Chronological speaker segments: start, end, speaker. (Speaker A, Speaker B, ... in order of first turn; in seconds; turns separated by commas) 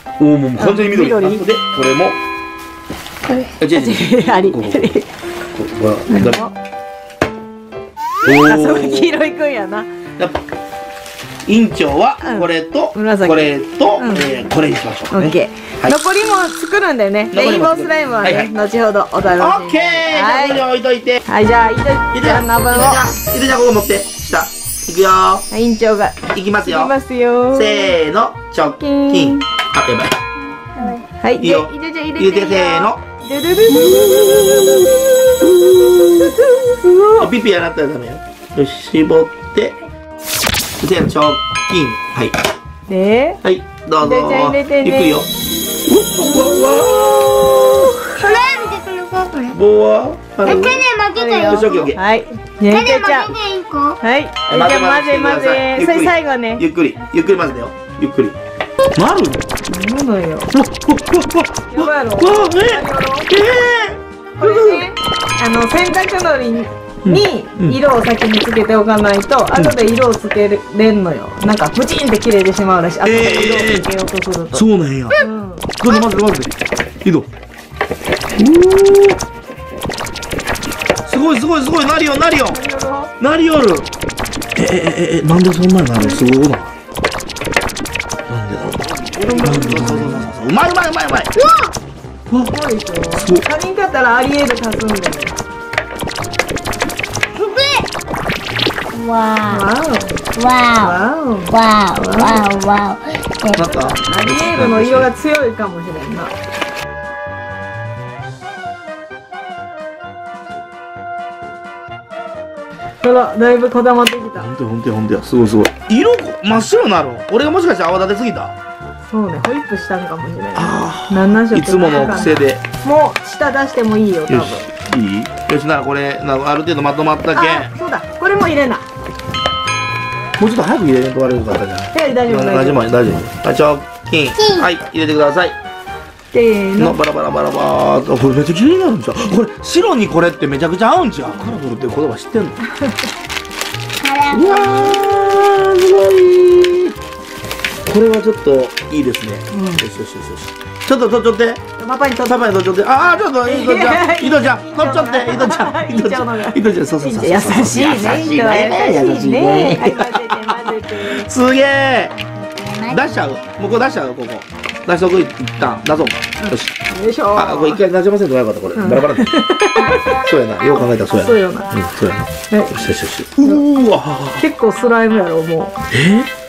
Speaker A: 0.2-2.2, Speaker B: 0.6-1.4, Speaker A: 3.6-4.9, Speaker B: 3.7-5.1, Speaker A: 5.5-6.4, Speaker B: 6.1-6.5, Speaker A: 8.2-9.1, Speaker B: 8.3-9.9, Speaker A: 11.5-16.0, Speaker B: 12.2-14.3, Speaker B: 15.1-20.6, Speaker A: 17.3-18.5, Speaker A: 19.4-21.2, Speaker B: 21.3-23.1, Speaker A: 22.1-25.5, Speaker B: 25.5-27.9, Speaker A: 26.3-26.9, Speaker A: 27.5-30.2, Speaker B: 28.8-29.5, Speaker C: 30.8-31.0, Speaker B: 30.8-37.3, Speaker A: 31.4-33.0, Speaker A: 33.7-36.4, Speaker A: 37.2-39.8, Speaker A: 40.8-42.4, Speaker B: 42.9-43.4, Speaker A: 43.4-45.3, Speaker B: 44.0-45.2, Speaker A: 45.9-48.0, Speaker C: 46.4-47.2, Speaker C: 48.1-49.6, Speaker A: 49.5-50.9, Speaker C: 50.4-51.9, Speaker B: 51.1-53.4, Speaker A: 51.4-52.0, Speaker C: 52.7-54.0, Speaker B: 54.0-56.6, Speaker A: 54.5-58.4, Speaker A: 58.9-59.5, Speaker B: 59.7-60.5, Speaker A: 60.5-64.8, Speaker B: 61.7-63.3, Speaker B: 64.4-74.6, Speaker A: 67.0-67.8, Speaker A: 73.0-73.9, Speaker A: 74.5-75.2, Speaker B: 75.2-75.7, Speaker A: 75.8-77.3, Speaker A: 78.4-79.2, Speaker A: 81.1-82.6, Speaker B: 82.5-83.1, Speaker A: 83.2-83.9, Speaker A: 84.5-86.7, Speaker A: 88.3-91.3, Speaker B: 89.2-90.2, Speaker B: 91.4-91.7, Speaker B: 92.4-95.3, Speaker A: 93.2-93.5, Speaker B: 97.4-97.9, Speaker C: 98.9-99.7, Speaker B: 99.5-102.5, Speaker C: 100.4-101.0, Speaker C: 101.5-103.9, Speaker A: 103.5-105.1, Speaker B: 104.0-106.3, Speaker B: 113.0-114.5, Speaker A: 114.4-118.5, Speaker B: 119.1-124.7, Speaker A: 120.5-122.6, Speaker A: 124.3-127.7, Speaker B: 127.3-128.8, Speaker A: 130.4-135.6, Speaker B: 131.9-132.9, Speaker C: 134.4-134.7, Speaker B: 136.3-137.0, Speaker A: 136.8-142.6, Speaker C: 144.0-145.1, Speaker A: 144.3-146.9, Speaker A: 147.9-151.6, Speaker B: 149.5-149.8, Speaker B: 151.8-152.5, Speaker A: 152.2-162.2, Speaker B: 153.5-161.3, Speaker C: 162.3-163.5, Speaker A: 162.9-166.7, Speaker B: 166.4-167.8, Speaker A: 167.3-169.4, Speaker B: 168.8-170.2, Speaker A: 170.2-174.4, Speaker B: 171.1-171.7, Speaker B: 172.5-172.8, Speaker B: 174.4-175.8, Speaker A: 175.9-176.3